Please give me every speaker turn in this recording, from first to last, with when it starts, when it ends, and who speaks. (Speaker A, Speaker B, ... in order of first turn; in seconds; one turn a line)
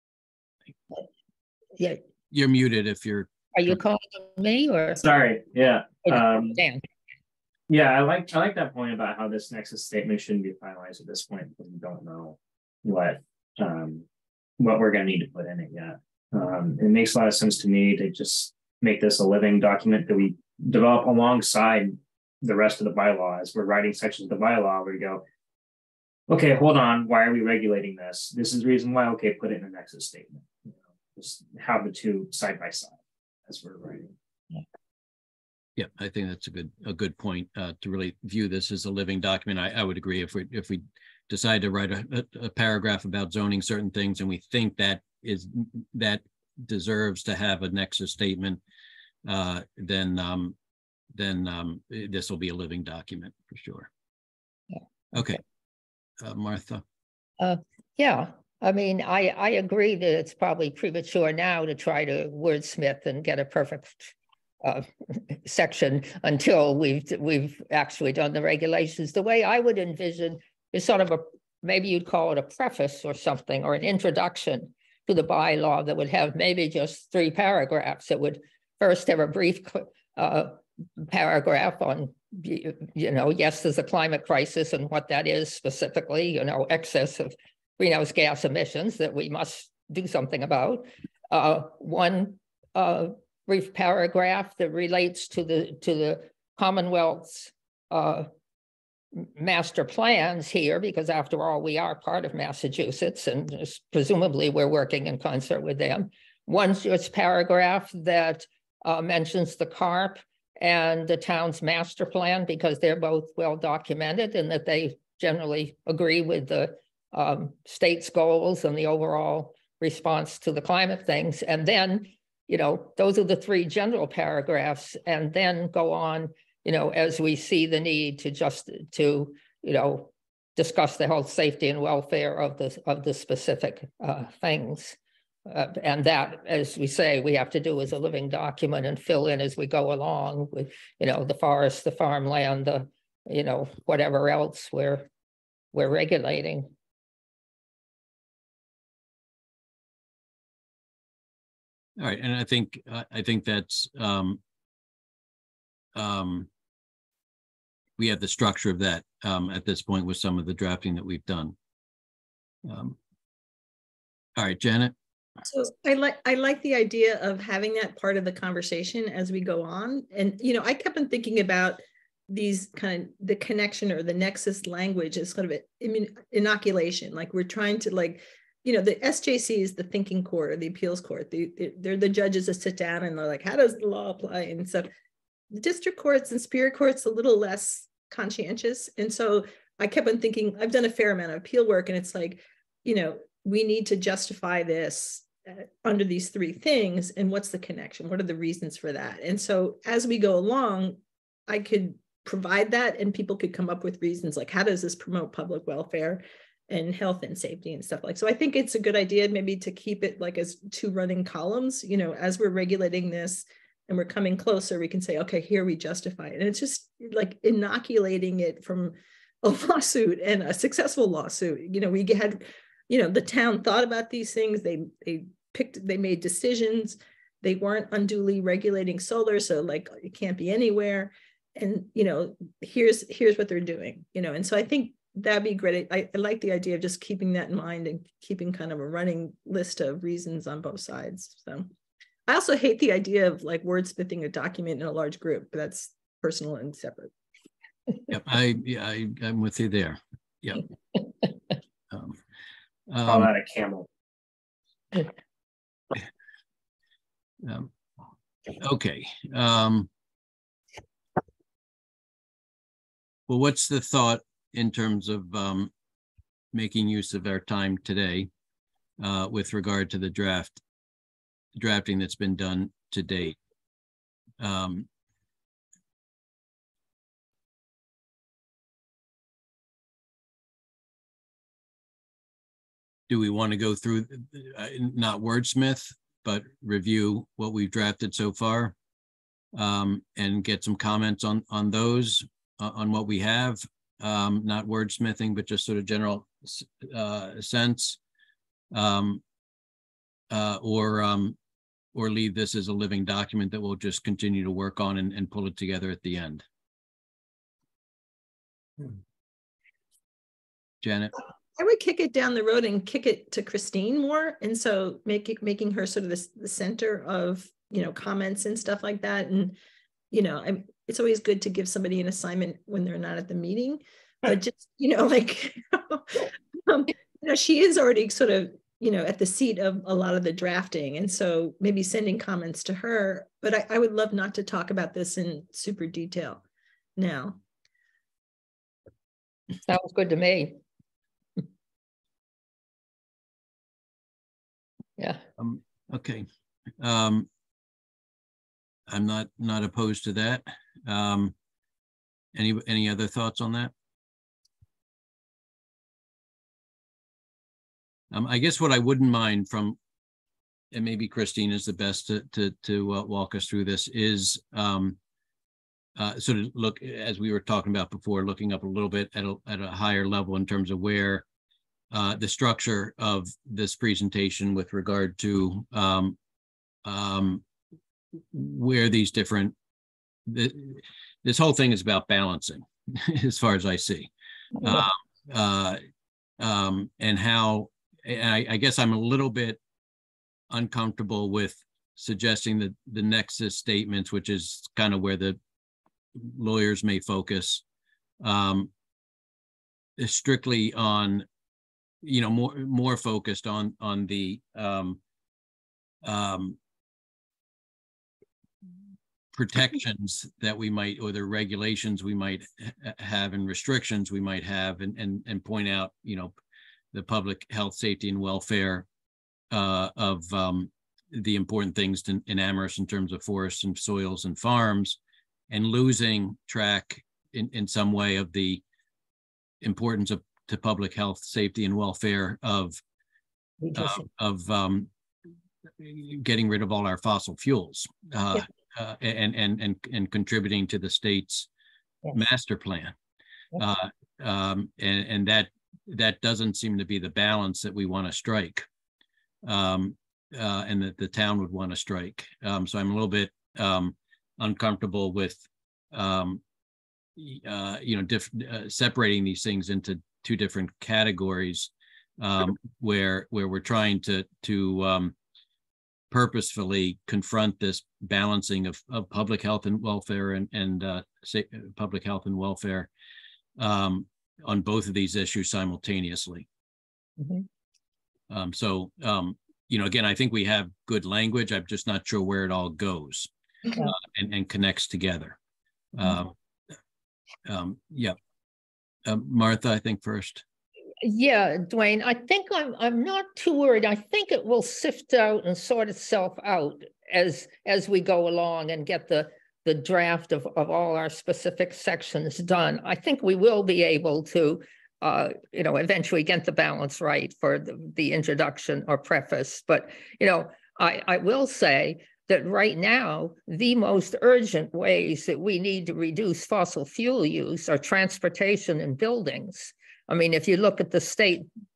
Speaker A: 2.3-3.8
Speaker B: 3.5-5.0
Speaker C: 4.9-6.6
Speaker B: 6.1-6.8
Speaker C: 7.7-14.1
Speaker C: 14.6-25.2
Speaker C: 26.3-34.1
Speaker A: 35.8-48.6
Speaker A: 49.2-50.5
Speaker A: 51.1-53.9
Speaker A: 55.1-55.4
Speaker A: 56.2-56.8
Speaker B: 57.4-98.3
Speaker B: 99.1-145.1
Speaker B: 145.7-146.7
Speaker A: 152.0-154.4
Speaker A: 155.9-156.5
Speaker A: 158.0-161.5
Speaker A: 162.6-163.0
Speaker A: 164.4-164.9
Speaker D: 165.5-184.9
Speaker D: 185.5-241.7
Speaker D: 242.3-247.1
Speaker A: 248.1-250.6
Speaker A: 251.9-252.2
Speaker A: 252.9-253.3
Speaker C: 253.0-253.9
Speaker A: 257.4-257.7
Speaker A: 258.6-259.9
Speaker A: 263.3-265.7
Speaker A: 266.5-268.3
Speaker A: 269.0-270.6
Speaker A: 271.6-273.4
Speaker A: 274.4-274.9
Speaker A: 283.1-288.7
Speaker A: 289.5-298.0
Speaker A: 298.7-299.2
Speaker A: 300.3-301.4
Speaker A: 301.9-306.4
Speaker A: 310.8-311.1
Speaker D: 311.6-319.6
Speaker D: 320.1-336.4
Speaker D: 337.0-337.4
Speaker B: 339.6-340.6
Speaker B: 345.0-345.2
Speaker A: 345.4-346.2
Speaker A: 346.8-347.3
Speaker A: 348.9-351.3
Speaker A: 352.3-353.7
Speaker A: 358.1-359.8
Speaker A: 360.7-365.0
Speaker A: 365.9-371.2
Speaker A: 371.9-376.1
Speaker A: 376.8-377.4
Speaker A: 378.3-379.5
Speaker A: 380.2-385.8
Speaker A: 386.4-389.6
Speaker A: 390.5-395.4
Speaker A: 396.1-397.6
Speaker A: 398.2-398.7
Speaker A: 400.0-401.2
Speaker A: 402.0-405.0
Speaker A: 406.0-406.6
Speaker A: 409.3-416.3
Speaker A: 416.9-418.9
Speaker A: 419.5-425.0
Speaker A: 425.5-428.6
Speaker A: 429.6-432.8
Speaker B: 433.6-434.0
Speaker A: 433.7-434.9
Speaker A: 435.8-441.5
Speaker A: 442.1-442.9
Speaker A: 443.6-448.6
Speaker A: 449.4-455.4
Speaker A: 455.9-456.4
Speaker A: 457.1-465.1
Speaker A: 466.1-472.9
Speaker A: 473.6-476.4
Speaker B: 477.2-477.4
Speaker A: 478.3-483.3
Speaker A: 483.8-485.4
Speaker A: 485.9-486.3
Speaker A: 487.4-488.1
Speaker A: 489.1-490.4
Speaker B: 491.0-521.5